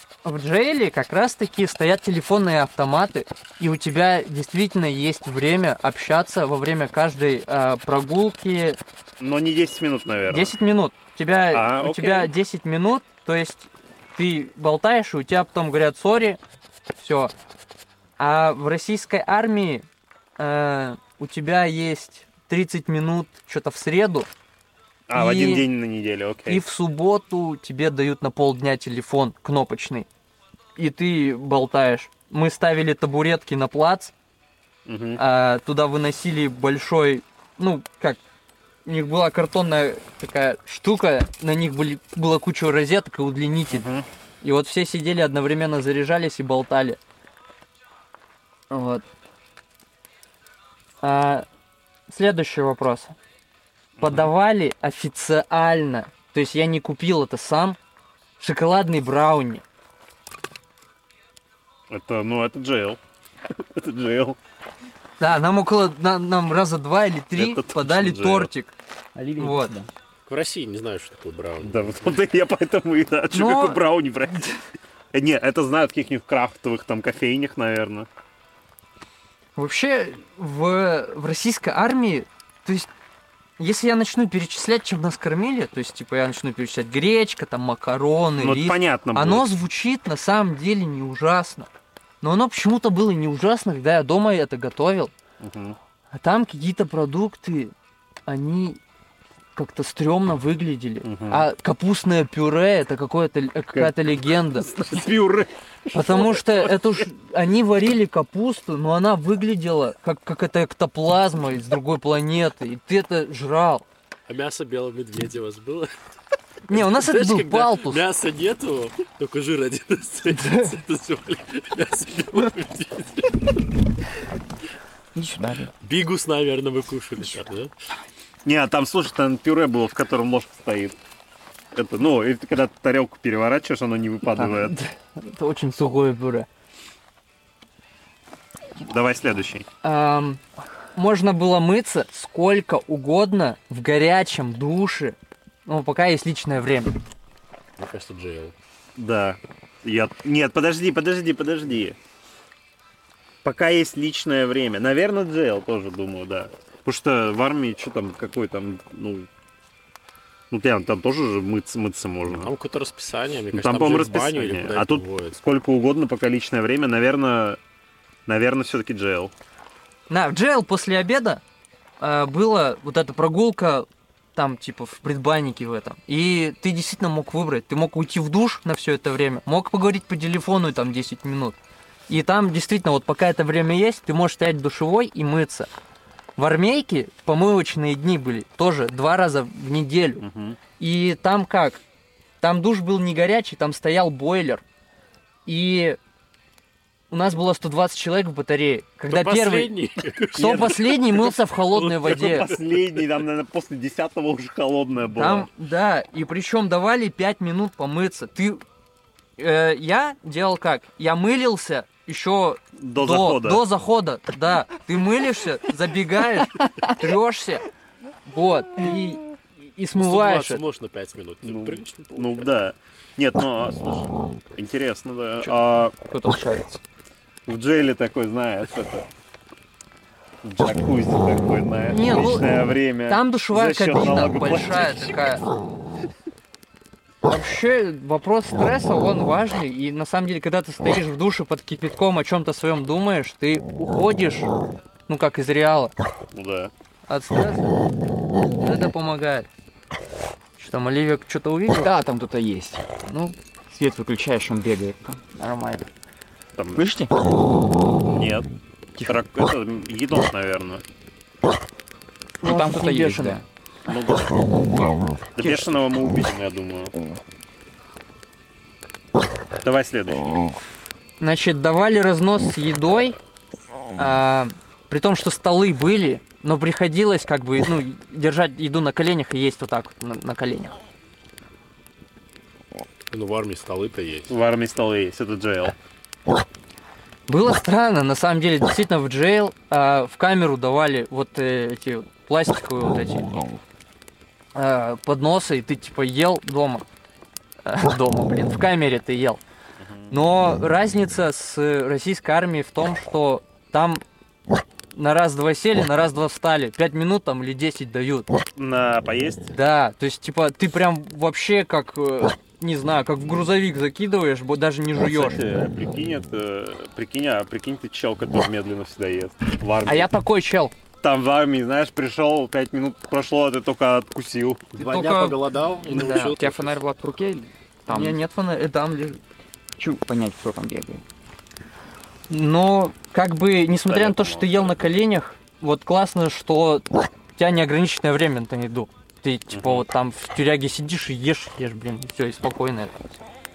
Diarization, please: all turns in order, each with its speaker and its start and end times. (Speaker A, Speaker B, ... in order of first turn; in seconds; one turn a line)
Speaker A: 0.2-8.8
Speaker B: 9.2-10.5
Speaker A: 10.3-16.4
Speaker B: 11.5-12.3
Speaker A: 17.0-17.3
Speaker A: 18.2-19.9
Speaker A: 20.4-24.3
Speaker B: 25.1-26.6
Speaker A: 25.1-25.7
Speaker A: 26.5-30.1
Speaker A: 30.8-34.1
Speaker B: 34.9-35.2
Speaker A: 35.2-38.2
Speaker A: 38.9-43.9
Speaker B: 43.7-44.1
Speaker A: 44.4-47.0
Speaker A: 48.7-49.0
Speaker A: 51.0-51.5
Speaker A: 52.1-53.1
Speaker B: 54.0-54.3
Speaker A: 54.0-57.8
Speaker A: 58.4-59.6
Speaker B: 61.9-63.0
Speaker B: 63.7-64.4
Speaker A: 65.2-68.7
Speaker B: 67.4-68.5
Speaker C: 69.2-69.9
Speaker A: 69.4-69.7
Speaker D: 70.3-72.2
Speaker B: 71.6-74.5
Speaker A: 73.3-74.5
Speaker B: 75.1-78.1
Speaker A: 79.6-82.9
Speaker A: 83.6-91.7
Speaker B: 88.4-89.5
Speaker A: 92.2-95.1
Speaker B: 95.4-95.8
Speaker A: 96.2-97.7
Speaker A: 98.3-98.8
Speaker A: 99.5-104.7
Speaker B: 101.0-101.5
Speaker B: 103.7-106.8
Speaker A: 105.9-113.8
Speaker D: 114.3-115.9
Speaker A: 116.7-118.0
Speaker D: 116.7-123.3
Speaker A: 120.4-120.7
Speaker C: 125.2-125.7
Speaker D: 125.8-127.7
Speaker B: 128.4-131.0
Speaker B: 131.7-134.8
Speaker A: 134.3-136.5
Speaker B: 138.8-139.7
Speaker A: 139.8-140.4
Speaker A: 140.9-147.0
Speaker D: 147.8-148.5
Speaker B: 149.0-152.0
Speaker B: 153.4-159.3
Speaker B: 160.5-162.5
Speaker D: 162.3-165.4
Speaker B: 163.5-167.6
Speaker B: 168.3-169.3
Speaker A: 170.1-171.4
Speaker A: 172.0-181.6
Speaker A: 182.1-185.7
Speaker A: 186.4-190.2
Speaker B: 190.2-190.6
Speaker A: 190.8-191.8
Speaker A: 192.4-194.6
Speaker A: 195.5-196.0
Speaker A: 197.1-199.7
Speaker D: 199.1-201.2
Speaker A: 200.3-202.6
Speaker B: 200.4-201.0
Speaker D: 201.8-203.1
Speaker B: 201.9-205.5
Speaker A: 205.1-208.6
Speaker A: 209.4-217.7
Speaker B: 212.8-213.6
Speaker A: 218.3-220.6
Speaker D: 219.9-222.5
Speaker B: 221.4-225.9
Speaker A: 225.4-226.8
Speaker B: 227.5-229.1
Speaker B: 230.4-235.2
Speaker A: 231.9-232.5
Speaker A: 233.1-235.4
Speaker A: 237.2-244.5
Speaker A: 245.1-245.9
Speaker B: 246.3-246.7
Speaker A: 247.1-247.7
Speaker A: 248.6-249.5
Speaker A: 250.6-251.9
Speaker C: 251.8-252.8
Speaker A: 253.1-253.3
Speaker C: 253.7-255.2
Speaker A: 255.4-255.9
Speaker B: 256.6-256.9
Speaker C: 256.8-257.1
Speaker B: 258.1-258.5
Speaker B: 259.0-260.8
Speaker A: 262.4-263.4
Speaker C: 262.4-263.4
Speaker B: 263.9-264.8
Speaker B: 265.4-266.9
Speaker C: 265.4-265.7
Speaker B: 269.6-270.4
Speaker A: 271.2-273.2
Speaker A: 274.0-280.8
Speaker D: 283.1-284.3
Speaker B: 284.3-285.7
Speaker A: 287.3-293.5
Speaker A: 294.6-296.9
Speaker A: 297.6-299.4
Speaker B: 299.8-300.1
Speaker A: 300.1-304.0
Speaker A: 304.9-308.3
Speaker B: 308.6-309.5
Speaker A: 309.5-315.4
Speaker B: 315.0-320.1
Speaker A: 319.9-320.7
Speaker B: 321.0-324.7
Speaker D: 324.7-326.8
Speaker A: 324.8-326.3
Speaker C: 325.9-328.2
Speaker A: 327.9-329.2
Speaker C: 329.8-331.0
Speaker A: 332.3-343.2
Speaker B: 333.9-334.6
Speaker B: 339.5-339.9